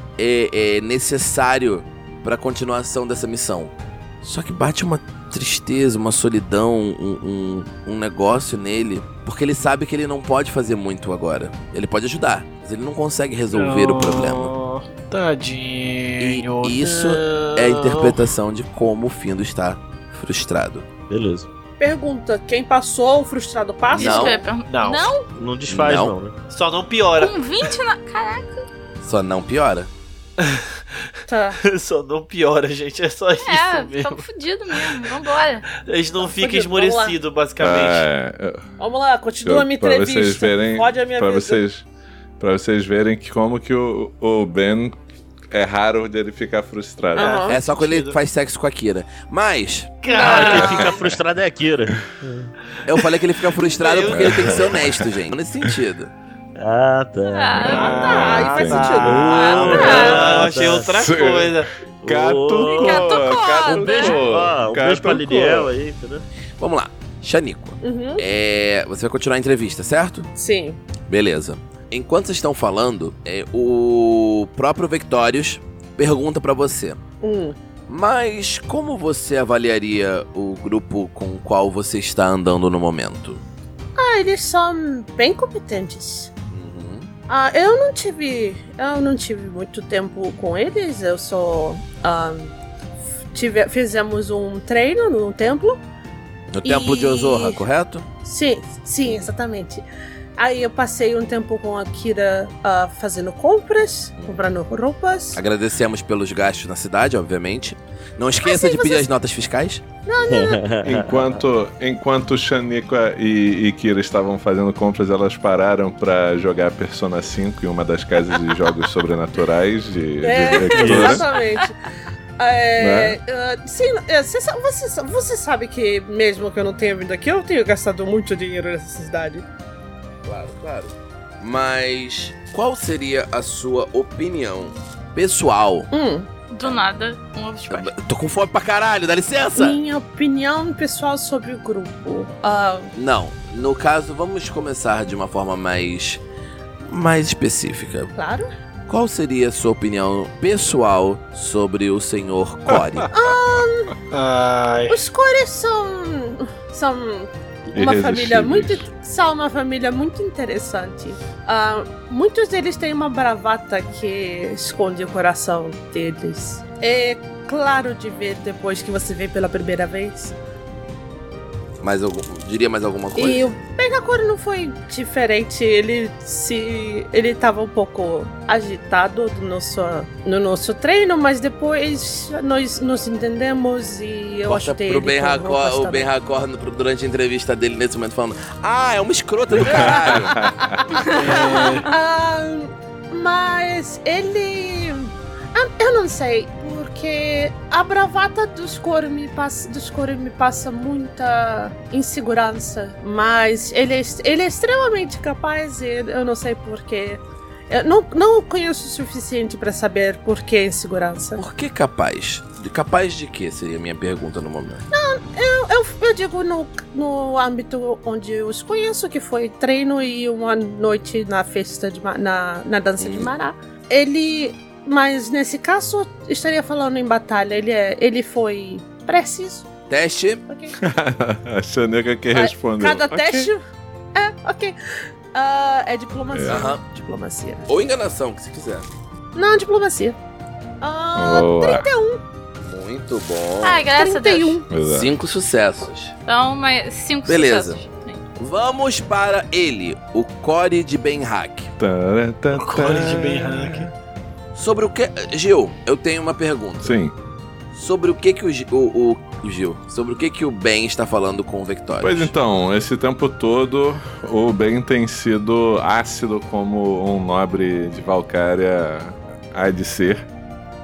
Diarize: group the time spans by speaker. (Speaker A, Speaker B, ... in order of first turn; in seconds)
Speaker A: 0.2-14.5, 16.2-20.9, 23.9-24.4, 25.7-26.1, 29.0-29.9, 47.5-50.0, 52.9-56.1, 66.6-70.3, 71.1-77.0, 77.9-83.4, 86.5-87.1, 96.5-98.0, 99.0-99.3, 104.2-104.4, 105.3-109.8, 130.2-135.9, 137.7-139.8, 142.9-146.2, 146.8-148.1, 148.9-153.1, 171.8-173.5, 184.4-190.4, 211.3-214.8, 223.0-223.3, 229.9-230.4, 236.5-236.8, 237.7-238.8, 242.6-243.9, 244.7-246.1, 247.2-247.8, 248.4-251.7, 254.5-256.9, 257.7-262.3
Speaker B: 13.5-18.2, 24.6-25.1, 26.5-27.4, 30.4-30.7, 31.6-35.1, 35.8-38.0, 47.1-48.2, 50.0-51.0, 53.5-54.8, 57.9-59.0, 59.6-61.7, 154.1-155.0, 191.1-191.9, 252.6-253.9
Speaker C: 21.1-21.5, 25.3-26.4, 50.2-52.5, 56.5-58.3, 58.8-60.9, 62.0-63.0, 63.7-66.2, 110.2-111.2, 120.7-121.2
Speaker D: 21.8-24.4, 31.3-31.6, 36.2-37.2, 38.8-41.6, 47.1-47.6, 57.6-59.7, 67.8-68.2, 70.3-70.8, 77.2-77.5, 84.0-86.3, 87.3-92.5, 93.3-95.8, 96.6-97.6, 98.2-99.8, 100.4-105.4, 108.4-109.1, 110.0-110.6, 120.2-121.8, 122.4-129.4, 135.9-136.3, 139.5-142.9, 148.1-148.5, 153.1-154.0, 154.9-170.3, 173.2-186.1, 189.6-211.4, 214.9-229.7, 230.5-230.7, 232.3-233.6, 234.1-234.7, 235.3-237.7, 239.3-240.2, 240.8-242.2, 243.9-244.7
Speaker E: 23.9-25.2, 27.2-28.7, 33.4-35.6, 50.1-50.8, 57.2-58.1, 59.3-60.2, 62.6-64.2, 136.5-137.9, 243.6-244.6, 246.3-248.2
Speaker F: 37.6-38.7, 39.4-41.8, 42.4-45.0, 45.5-47.4, 50.7-51.2, 54.1-55.8, 57.5-65.7, 110.8-121.2, 122.8-123.2, 152.7-153.0, 157.7-158.9, 189.6-190.8, 230.8-233.5, 236.3-236.7, 241.1-241.9, 244.7-245.1, 251.8-253.9, 256.8-257.1, 262.0-270.2